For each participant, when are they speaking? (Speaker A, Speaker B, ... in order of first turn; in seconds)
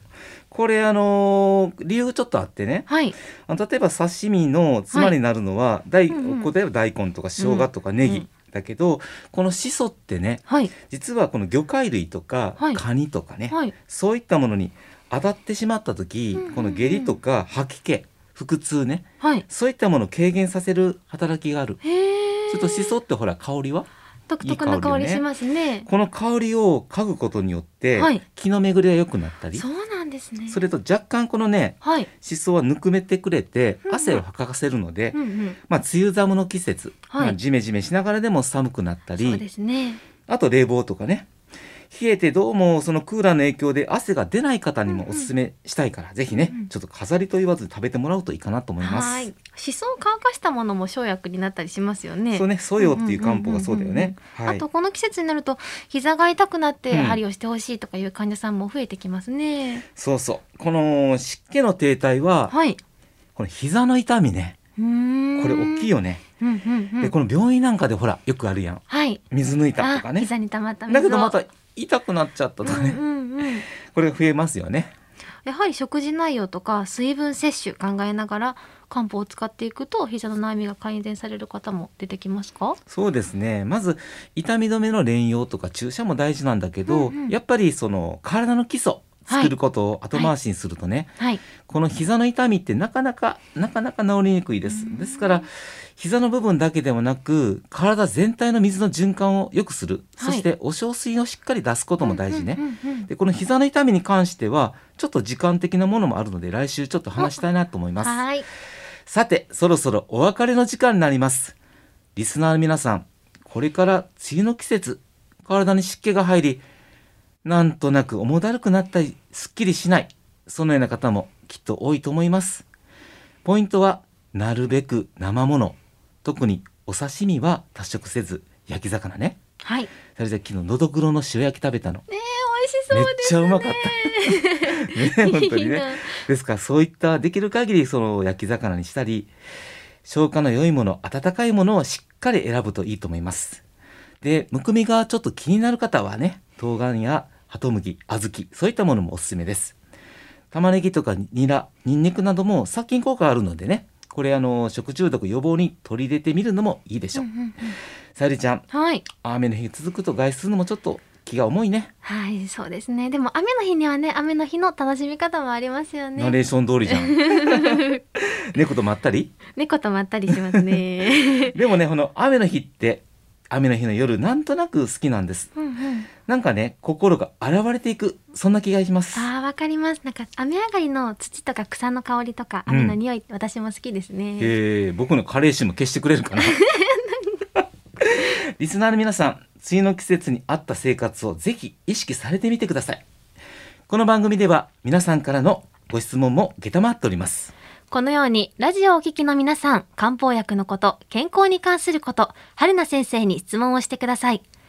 Speaker A: 0.5-2.9, 3.5-21.8, 22.5-23.9, 24.4-25.2, 25.9-29.6, 30.5-35.2, 35.7-39.4, 40.3-41.2, 41.9-49.3, 52.3-54.6, 56.9-57.2, 60.0-62.5, 63.4-64.6, 65.4-66.2, 67.0-70.3, 70.9-73.0, 73.8-74.9, 82.9-91.1, 91.6-108.2, 109.1-111.5, 112.2-116.6, 117.4-122.6, 123.4-129.4, 130.2-132.0, 132.9-139.3, 140.1-143.6, 144.2-149.8, 150.5-157.2, 158.2-158.6, 159.2-161.9, 166.2-167.8, 168.5-169.3, 170.3-170.8, 171.4-175.5, 176.2-179.3, 182.7-183.0, 184.4-186.6, 188.0-193.0, 193.9-197.5
Speaker B: 2.9-3.1, 6.1-6.5, 7.4-8.2, 10.5-10.7, 16.3-17.2, 19.2-19.4, 21.8-22.9, 24.3-25.9, 28.0-28.2, 29.5-30.7, 31.8-32.1, 33.9-34.2, 35.1-35.6, 37.1-37.4, 39.2-40.0, 44.9-45.3, 46.4-46.7, 48.8-59.8, 62.5-62.8, 64.8-67.1, 68.9-69.2, 69.8-71.4, 72.6-73.7, 75.4-82.8, 86.9-87.3, 94.7-95.5, 100.2-100.5, 102.0-103.1, 108.0-108.5, 129.6-129.9, 132.1-136.2, 157.1-157.8, 158.7-159.1, 162.0-166.4, 166.9-168.0, 169.6-171.6, 175.6-176.1, 179.1-184.6, 186.4-187.3, 197.9-204.4